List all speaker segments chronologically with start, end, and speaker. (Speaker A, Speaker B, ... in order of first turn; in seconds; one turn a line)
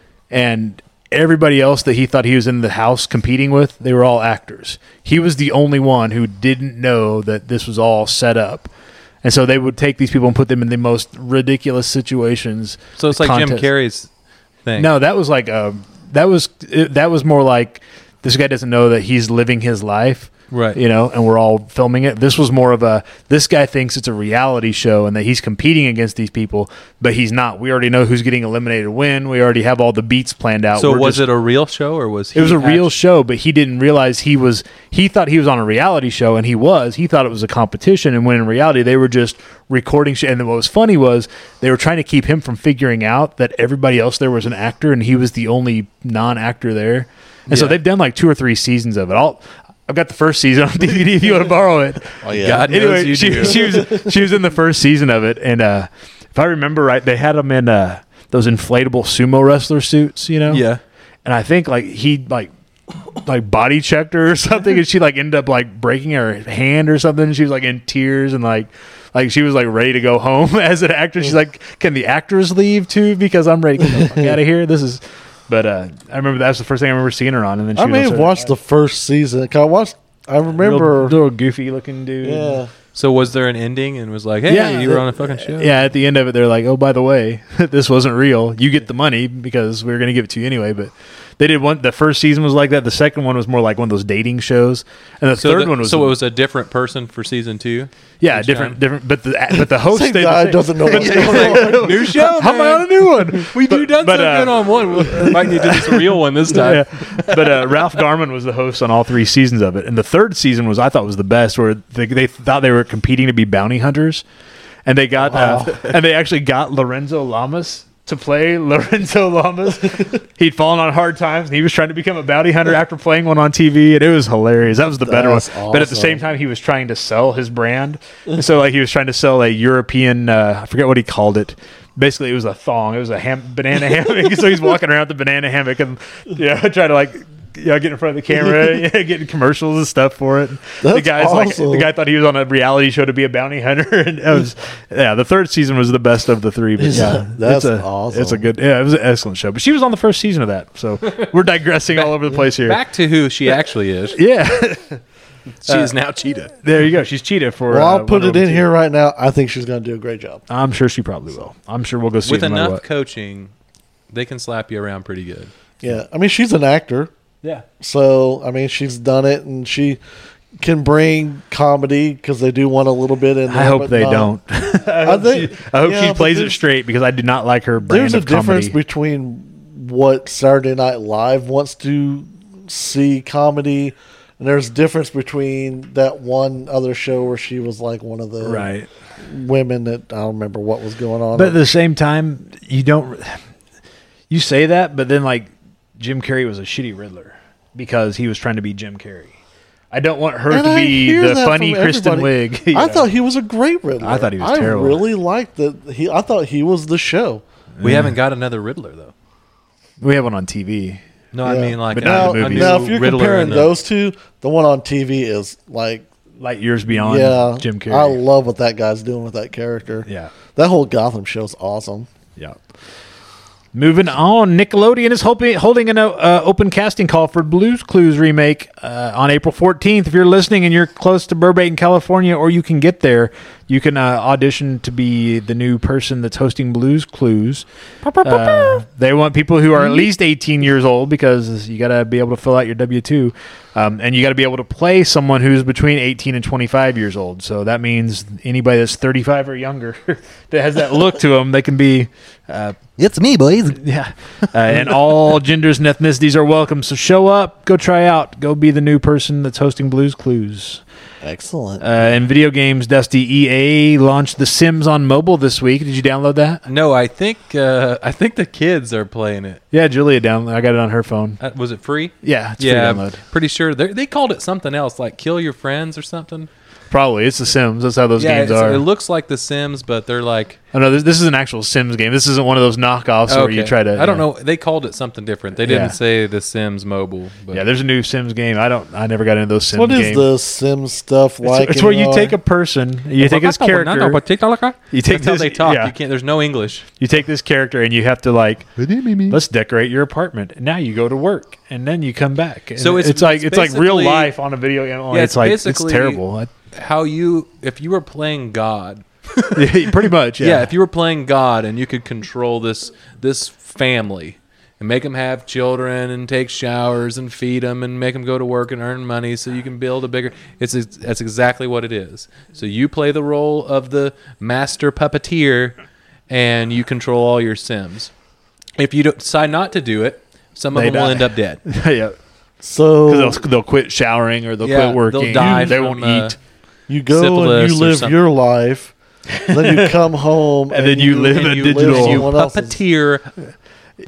Speaker A: 0.3-8.7
Speaker A: 9.2-13.7
Speaker B: 13.0-14.1
Speaker B: 14.7-14.9
Speaker A: 14.8-31.3
Speaker B: 20.5-20.8
Speaker B: 30.8-32.9
Speaker A: 32.4-60.6
Speaker B: 47.5-47.8
Speaker C: 52.2-52.8
Speaker B: 52.3-53.9
Speaker C: 53.3-54.0
Speaker B: 60.5-60.8
Speaker A: 61.2-62.5
Speaker A: 63.2-78.5
Speaker C: 73.8-74.4
Speaker C: 77.8-81.2
Speaker A: 80.6-82.6
Speaker C: 82.2-82.7
Speaker B: 82.9-85.7
Speaker A: 84.5-96.2
Speaker B: 95.4-98.8
Speaker A: 98.2-114.2
Speaker C: 99.5-102.1
Speaker B: 100.8-107.9
Speaker A: 114.9-152.8
Speaker C: 115.3-115.7
Speaker C: 125.0-126.2
Speaker C: 140.8-141.9
Speaker C: 146.8-148.4
Speaker B: 151.9-154.2
Speaker A: 154.1-155.0
Speaker B: 155.6-156.5
Speaker A: 155.7-155.9
Speaker A: 156.6-158.6
Speaker C: 157.7-160.4
Speaker A: 160.5-162.8
Speaker B: 162.2-163.5
Speaker B: 164.1-165.5
Speaker C: 165.8-167.1
Speaker C: 167.8-170.0
Speaker C: 170.6-174.3
Speaker A: 173.5-178.8
Speaker C: 175.0-176.6
Speaker C: 177.8-188.7
Speaker A: 188.4-188.9
Speaker C: 189.2-191.6
Speaker A: 191.3-193.4
Speaker A: 194.3-199.3
Speaker A: 199.9-203.1
Speaker C: 200.5-207.4
Speaker A: 204.0-205.0
Speaker A: 207.8-208.2
Speaker B: 207.8-209.1
Speaker A: 210.0-211.0
Speaker B: 211.3-213.8
Speaker C: 211.4-216.1
Speaker A: 211.9-212.9
Speaker A: 216.4-218.2
Speaker C: 216.9-222.1
Speaker A: 220.1-220.3
Speaker A: 223.7-237.7
Speaker B: 238.1-238.8
Speaker A: 238.2-252.9
Speaker B: 253.0-253.8
Speaker A: 253.8-260.8
Speaker B: 254.7-255.1
Speaker C: 261.2-261.9
Speaker A: 261.8-266.6
Speaker B: 266.6-269.6
Speaker A: 269.7-271.4
Speaker B: 271.4-276.5
Speaker A: 272.2-273.2
Speaker A: 276.9-278.8
Speaker B: 278.2-280.6
Speaker A: 280.7-284.2
Speaker B: 283.3-287.7
Speaker A: 285.6-286.0
Speaker A: 287.5-290.3
Speaker C: 289.7-292.4
Speaker A: 291.4-294.2
Speaker B: 293.2-296.9
Speaker A: 294.9-295.9
Speaker A: 297.0-298.7
Speaker B: 298.8-299.4
Speaker A: 299.3-306.5
Speaker B: 302.8-304.3
Speaker B: 305.1-325.8
Speaker A: 309.6-310.7
Speaker B: 326.3-328.1
Speaker B: 328.8-331.6
Speaker A: 330.7-332.2
Speaker C: 332.6-333.4
Speaker A: 333.1-336.4
Speaker B: 334.6-336.4
Speaker C: 335.4-335.7
Speaker C: 336.9-338.9
Speaker B: 337.1-338.2
Speaker A: 339.3-340.0
Speaker C: 339.5-342.8
Speaker A: 340.7-342.3
Speaker B: 341.3-343.3